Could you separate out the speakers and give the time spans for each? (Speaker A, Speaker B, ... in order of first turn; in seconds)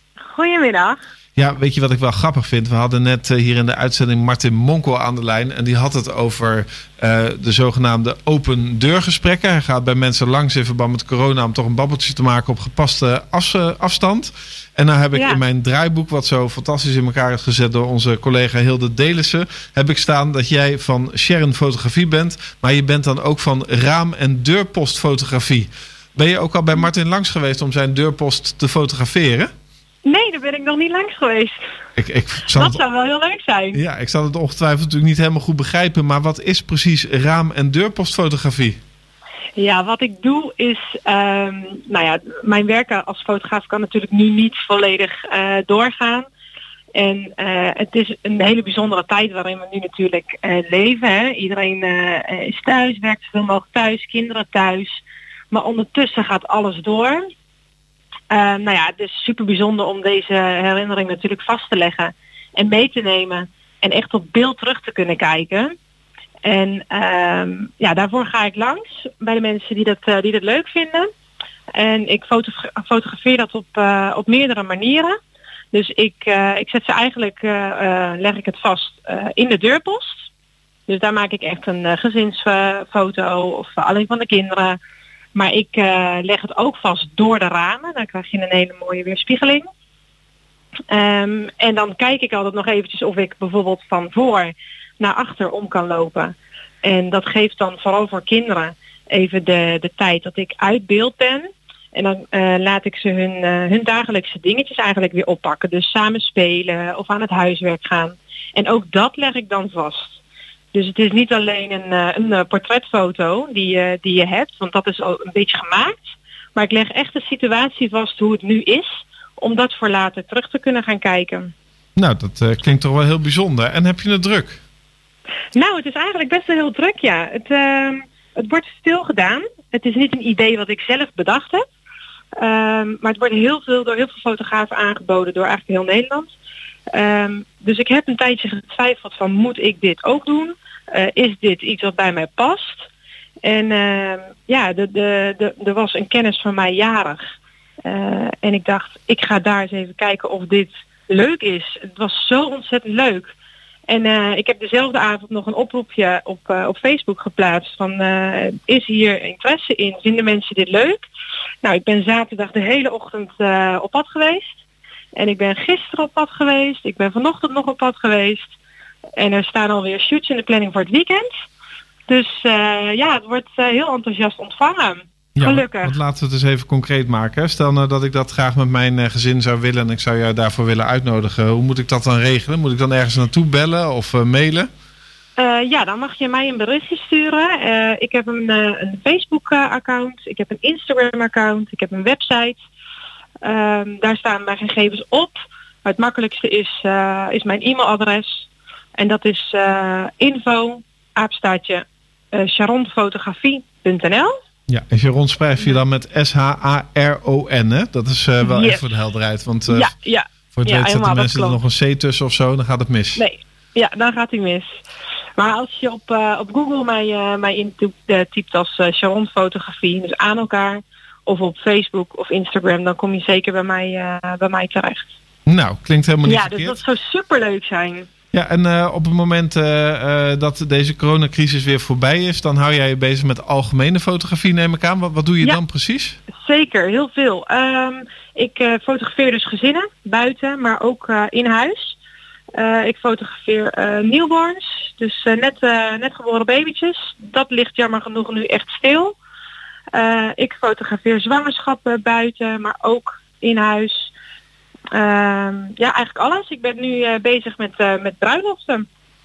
Speaker A: 0.3-1.0, 15.1-15.4, 30.1-31.6, 32.5-33.8, 39.6-46.3, 47.0-57.2, 58.3-65.7, 66.5-71.1, 71.8-75.2, 75.7-80.3, 80.9-84.8, 85.3-89.6, 90.9-110.2, 110.7-121.5, 125.5-131.7, 132.4-136.3, 136.9-142.9, 143.4-147.3, 147.8-153.3, 153.9-161.1, 161.6-164.6, 165.2-168.6, 169.2-171.3, 172.1-175.9, 185.4-192.6, 193.4-195.3, 195.8-204.3, 208.4-208.9, 209.7-211.6, 213.2-214.8, 215.4-225.1, 226.3-228.1, 236.3-242.0, 242.6-249.2, 249.9-254.1, 254.9-258.9
Speaker B: 1.4-29.5, 32.0-32.8, 33.7-38.8, 122.0-124.6, 175.4-184.7, 204.7-209.9, 210.5-213.2, 225.5-226.8, 228.3-236.2